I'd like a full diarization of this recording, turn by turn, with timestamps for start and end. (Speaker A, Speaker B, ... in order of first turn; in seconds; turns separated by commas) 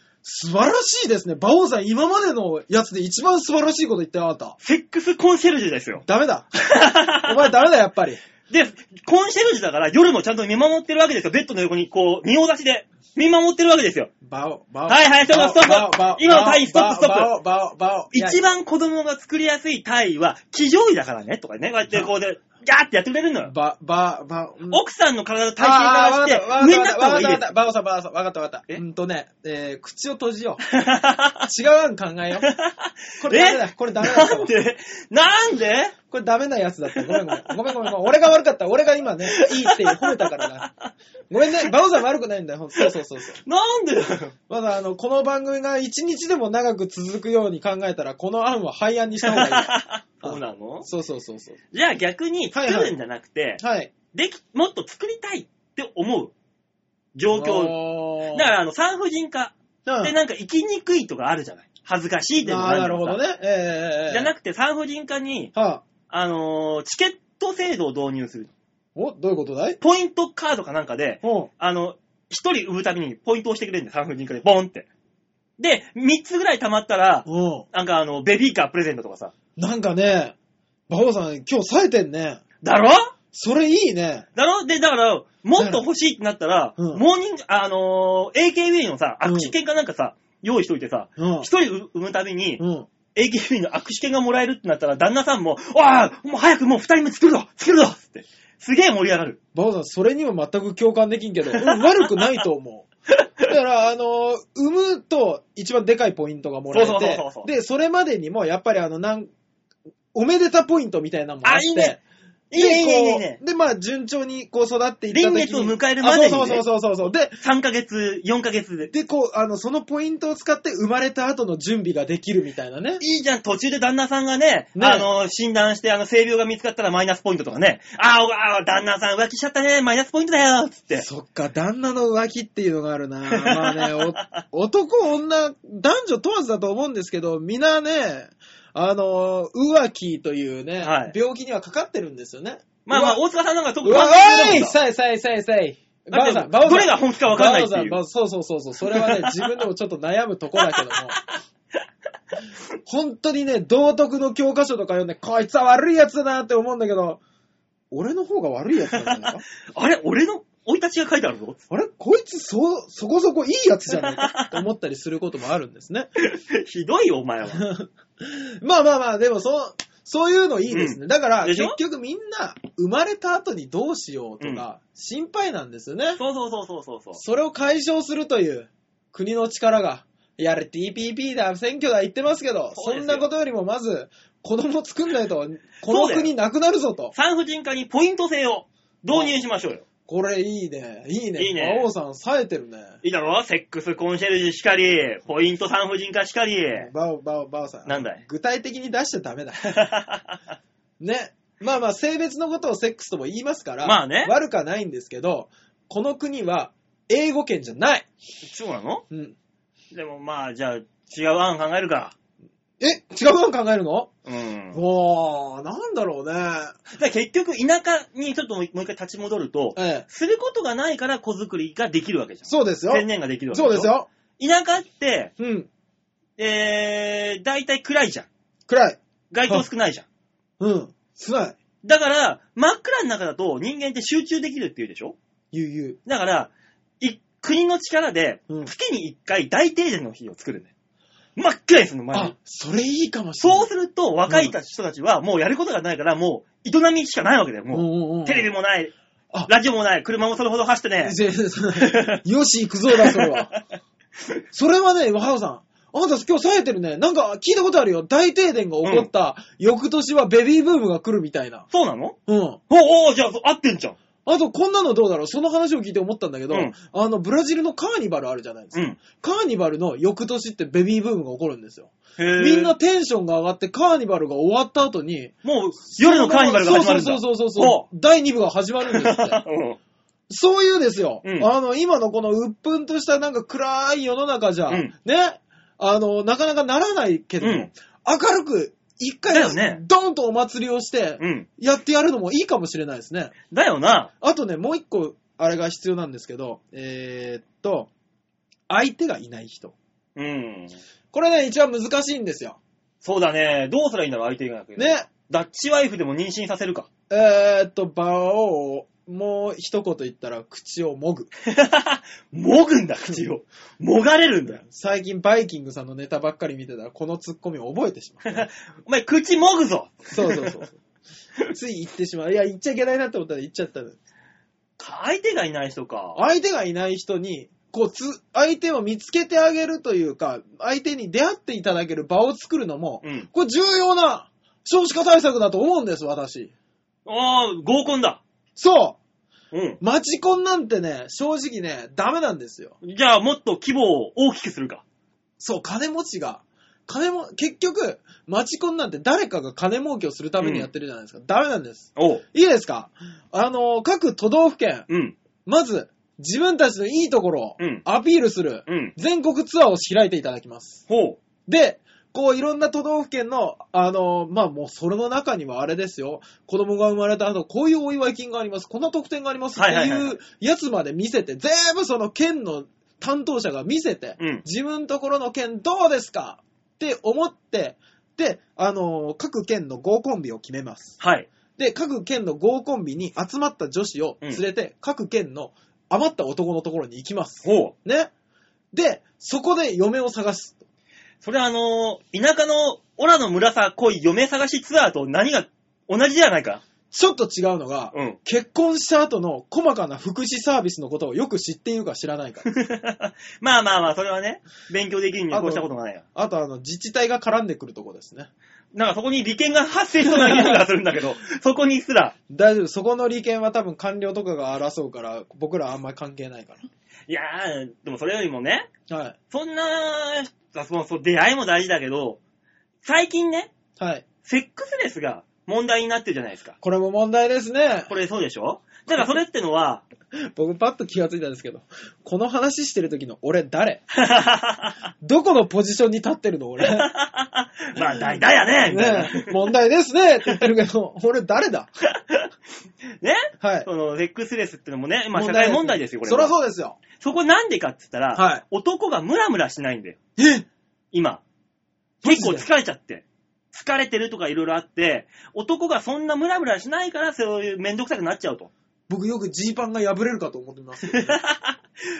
Speaker A: 0.2-4.6, Speaker B: 4.6-6.0, Speaker A: 6.0-8.2, Speaker B: 6.6-7.5, Speaker B: 8.5-14.1, Speaker A: 14.2-18.4, Speaker B: 14.9-17.3, Speaker B: 18.1-23.5, Speaker A: 23.4-24.8, Speaker B: 24.7-27.5, Speaker A: 25.6-30.6, Speaker B: 30.7-31.5, Speaker A: 31.4-32.5, Speaker B: 32.4-35.9, Speaker A: 33.2-34.5, Speaker A: 36.1-40.7, Speaker B: 37.0-37.5, Speaker B: 39.3-40.9, Speaker A: 41.3-43.4, Speaker B: 43.4-44.3, Speaker A: 44.5-49.7, Speaker B: 49.2-50.9, Speaker A: 50.2-51.6, Speaker B: 51.7-56.3, Speaker A: 52.5-52.9, Speaker A: 53.6-53.9, Speaker B: 57.1-57.8, Speaker A: 57.3-58.5, Speaker B: 58.3-63.2, Speaker A: 59.9-60.1, Speaker A: 62.4-64.3, Speaker B: 64.1-65.5, Speaker A: 65.5-65.8, Speaker B: 66.1-68.5, Speaker A: 69.0-69.8, Speaker B: 69.8-74.9, Speaker A: 71.2-71.5, Speaker B: 75.6-79.3, Speaker A: 77.2-77.7, Speaker A: 79.6-80.3, Speaker A: 80.9-82.4, Speaker B: 82.6-83.1, Speaker A: 83.3-84.2, Speaker B: 84.3-92.6, Speaker A: 85.6-85.8, Speaker A: 86.8-87.0, Speaker A: 89.2-89.5, Speaker A: 91.2-91.5, Speaker A: 92.6-92.9, Speaker B: 93.1-99.4, Speaker A: 99.5-102.9, Speaker B: 101.5-101.8, Speaker A: 103.4-109.3, Speaker B: 106.7-107.5, Speaker A: 110.1-112.0, Speaker B: 111.4-112.0, Speaker B: 112.5-113.4, Speaker A: 112.5-117.4, Speaker B: 115.1-116.7, Speaker B: 117.4-118.9, Speaker A: 118.9-123.0, Speaker B: 123.0-131.1, Speaker A: 124.8-125.1, Speaker A: 130.9-143.2, Speaker B: 133.3-134.4, Speaker B: 140.8-141.1, Speaker B: 142.8-144.8, Speaker A: 143.8-151.2, Speaker B: 146.1-148.0, Speaker B: 148.8-149.5, Speaker B: 150.6-151.3, Speaker A: 152.8-157.2, Speaker A: 157.9-159.4, Speaker B: 158.9-161.6, Speaker A: 161.7-166.1, Speaker B: 163.9-164.6, Speaker B: 166.2-167.7, Speaker A: 167.5-176.2, Speaker B: 170.7-171.8, Speaker B: 176.2-177.2, Speaker A: 177.2-187.1, Speaker B: 182.7-183.3, Speaker B: 185.9-186.3, Speaker B: 187.1-189.8, Speaker A: 190.1-193.0, Speaker B: 191.4-191.9, Speaker B: 193.0-196.9, Speaker A: 196.7-199.8, Speaker B: 197.8-198.2, Speaker B: 199.6-200.4, Speaker A: 201.0-208.1, Speaker B: 203.8-204.3, Speaker B: 208.4-209.0, Speaker A: 209.1-209.3, Speaker B: 209.9-212.1, Speaker A: 212.8-214.1, Speaker B: 214.2-214.8, Speaker A: 214.7-216.8, Speaker B: 216.9-225.3, Speaker A: 219.8-220.0, Speaker A: 222.5-224.1, Speaker A: 225.4-225.7, Speaker B: 226.4-228.3, Speaker A: 228.7-229.6, Speaker B: 229.3-230.1, Speaker A: 230.6-231.6, Speaker B: 231.8-235.2, Speaker A: 235.5-236.0, Speaker B: 236.0-240.7, Speaker B: 241.3-242.3, Speaker A: 242.1-243.7, Speaker B: 243.4-248.9, Speaker A: 244.3-244.5, Speaker A: 247.7-248.5, Speaker B: 249.4-251.2, Speaker A: 251.0-253.5, Speaker B: 251.8-252.2, Speaker B: 252.9-253.6, Speaker A: 254.5-261.6, Speaker B: 258.8-259.1, Speaker B: 261.7-262.1, Speaker A: 262.3-262.6, Speaker B: 262.7-264.0, Speaker A: 264.2-275.3, Speaker B: 272.2-272.7, Speaker B: 275.4-277.9, Speaker A: 275.9-279.4, Speaker B: 278.9-279.8, Speaker A: 280.3-293.3, Speaker B: 281.2-281.5, Speaker B: 287.4-287.7, Speaker B: 289.3-289.8, Speaker B: 291.2-291.5, Speaker B: 293.5-294.1, Speaker A: 294.2-297.9, Speaker A: 298.7-299.7, Speaker B: 300.1-300.8, Speaker A: 301.1-302.6, Speaker B: 303.0-306.9, Speaker A: 304.8-305.1, Speaker A: 307.1-311.3, Speaker B: 311.4-314.6, Speaker A: 314.6-318.5, Speaker B: 318.3-320.6, Speaker A: 320.1-320.7, Speaker A: 321.5-324.0, Speaker B: 324.8-326.2, Speaker A: 326.1-336.5, Speaker B: 333.0-333.3, Speaker B: 337.1-338.2, Speaker A: 338.6-339.0, Speaker B: 339.5-339.8, Speaker A: 339.8-342.7, Speaker B: 342.8-344.8, Speaker A: 345.4-354.9, Speaker B: 350.4-350.7, Speaker B: 351.9-352.2, Speaker B: 354.9-355.1, Speaker A: 355.4-360.8, Speaker B: 358.7-358.9, Speaker B: 360.9-361.2, Speaker A: 361.5-381.0, Speaker B: 369.6-370.2, Speaker B: 374.2-374.4, Speaker B: 381.0-381.3, Speaker A: 381.6-388.1, Speaker B: 387.4-387.7, Speaker A: 388.7-390.6, Speaker B: 391.2-396.6, Speaker A: 396.9-402.4, Speaker B: 397.9-398.2, Speaker B: 402.4-406.0, Speaker A: 405.3-408.3, Speaker B: 408.7-412.1, Speaker A: 410.0-410.6, Speaker A: 412.3-416.6, Speaker B: 417.1-418.7, Speaker A: 418.9-419.1, Speaker B: 419.3-422.2, Speaker B: 422.8-423.5, Speaker A: 423.8-424.0, Speaker B: 424.2-426.6, Speaker A: 426.6-427.9, Speaker B: 427.9-429.9, Speaker A: 430.2-433.8, Speaker B: 433.9-434.8, Speaker A: 435.0-436.9, Speaker B: 436.6-439.4, Speaker A: 438.6-441.7, Speaker B: 443.0-446.3, Speaker A: 443.4-443.7, Speaker A: 445.1-446.8, Speaker B: 446.9-450.0, Speaker A: 448.1-448.4, Speaker A: 450.2-450.5, Speaker B: 450.9-451.2, Speaker A: 452.0-452.5, Speaker B: 452.0-458.5, Speaker A: 458.9-461.2, Speaker B: 460.9-461.6